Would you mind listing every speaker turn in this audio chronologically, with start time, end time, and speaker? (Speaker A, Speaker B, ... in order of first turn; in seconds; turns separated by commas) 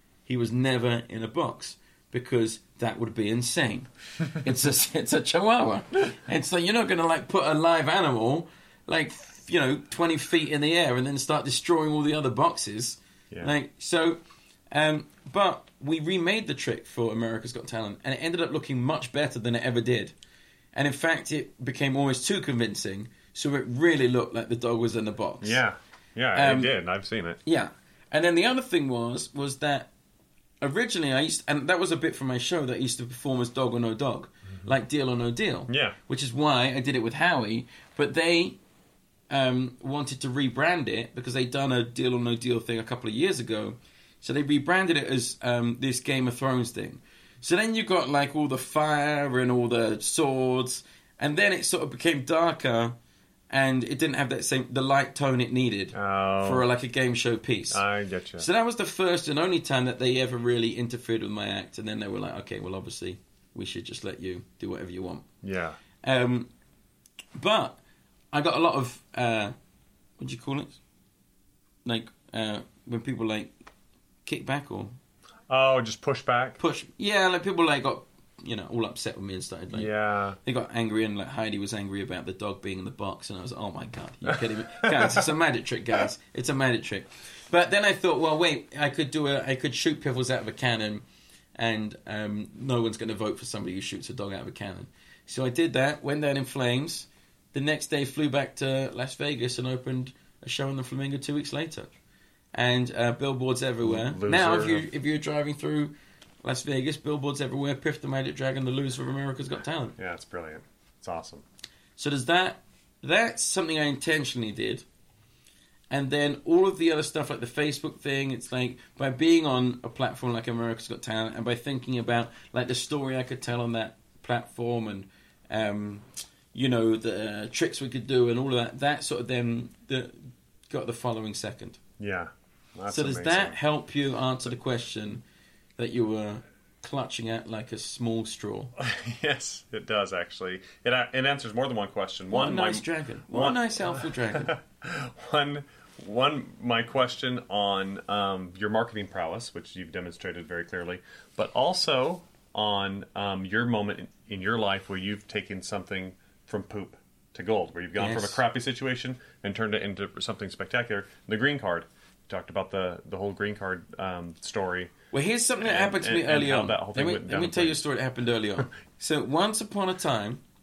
Speaker A: 0.2-14.2, Speaker A: 14.7-20.1, Speaker A: 20.7-25.6, Speaker B: 25.4-27.4, Speaker A: 26.3-26.8, Speaker A: 27.4-29.9, Speaker A: 30.6-38.6, Speaker B: 35.7-36.0, Speaker A: 39.3-53.0, Speaker A: 53.5-57.8, Speaker B: 55.9-56.6, Speaker B: 57.7-58.5, Speaker A: 58.4-65.2, Speaker B: 65.4-65.8, Speaker A: 66.0-66.5, Speaker A: 67.3-67.8, Speaker A: 68.3-69.5, Speaker A: 70.2-70.8, Speaker A: 71.8-73.5, Speaker A: 74.2-74.9, Speaker B: 75.5-76.6, Speaker A: 76.6-101.9, Speaker B: 79.7-80.4, Speaker B: 84.7-85.2, Speaker A: 102.5-110.0, Speaker B: 103.8-104.8, Speaker B: 110.0-111.4, Speaker A: 112.0-114.8, Speaker A: 115.9-131.8, Speaker B: 132.0-133.6, Speaker A: 132.9-135.2, Speaker A: 135.8-138.7, Speaker B: 138.8-164.9, Speaker A: 142.3-144.6, Speaker A: 157.9-158.4, Speaker A: 165.1-170.4, Speaker B: 165.6-167.8